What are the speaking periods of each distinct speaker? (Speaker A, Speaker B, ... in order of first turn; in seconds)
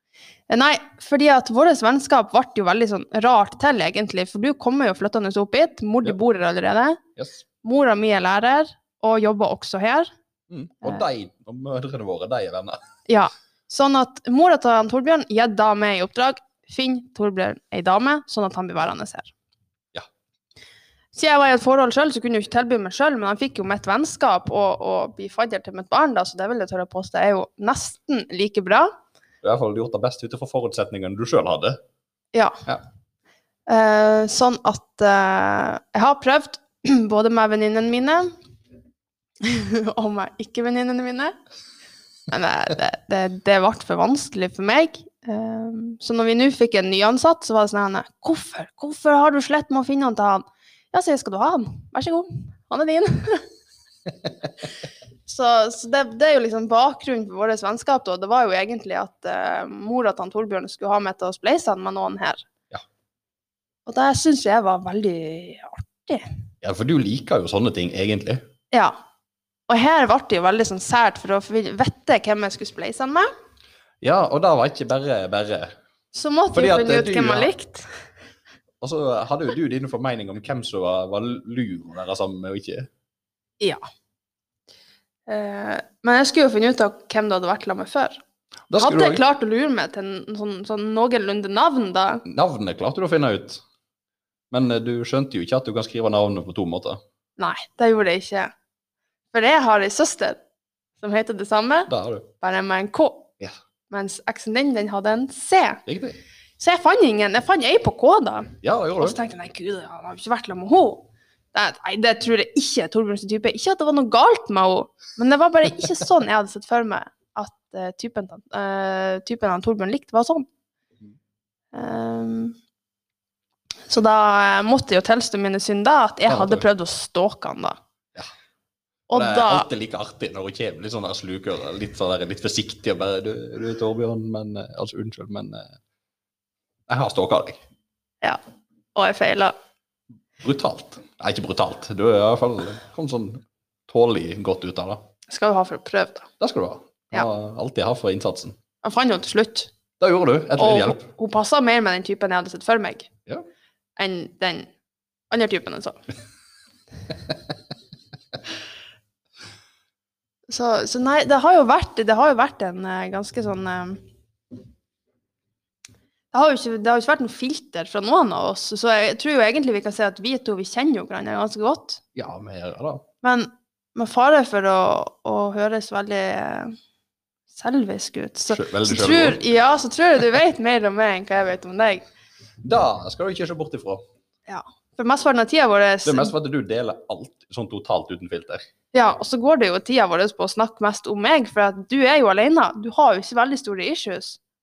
Speaker A: 0.5-7.0, 7.6-10.1, 13.1-19.3, 21.1-28.9, 32.3-32.6, 33.7-38.3, 39.4-41.3, 42.3-53.5, 55.2-62.4, 63.9-66.2, 69.7-73.3, 76.1-77.9, 85.3-88.2, 88.8-92.2, 97.4-98.5, 99.3-100.4, 101.0-103.3, 103.9-105.8, 106.6-120.5, 121.7-122.5, 123.9-127.8, 129.1-129.7, 138.9-139.5, 145.3-146.3, 148.8-149.7, 150.6-153.1, 154.0-154.7, 155.3-156.0, 160.5-164.0, 166.3-172.0, 173.2-176.7, 177.5-182.0, 184.5-186.3, 188.9-194.4
Speaker B: 7.2-7.4, 10.5-12.8, 29.4-31.8, 66.6-68.4, 74.0-75.7, 76.5-77.5, 78.8-82.9, 88.7-89.2, 92.2-93.6, 94.5-97.0, 101.9-102.3, 105.8-106.2, 108.6-109.2, 126.3-126.6, 129.1-135.7, 136.9-137.6, 140.4-145.0, 146.4-148.6, 150.0-151.1, 172.1-173.0, 178.5-179.4, 182.6-184.0, 186.0-188.6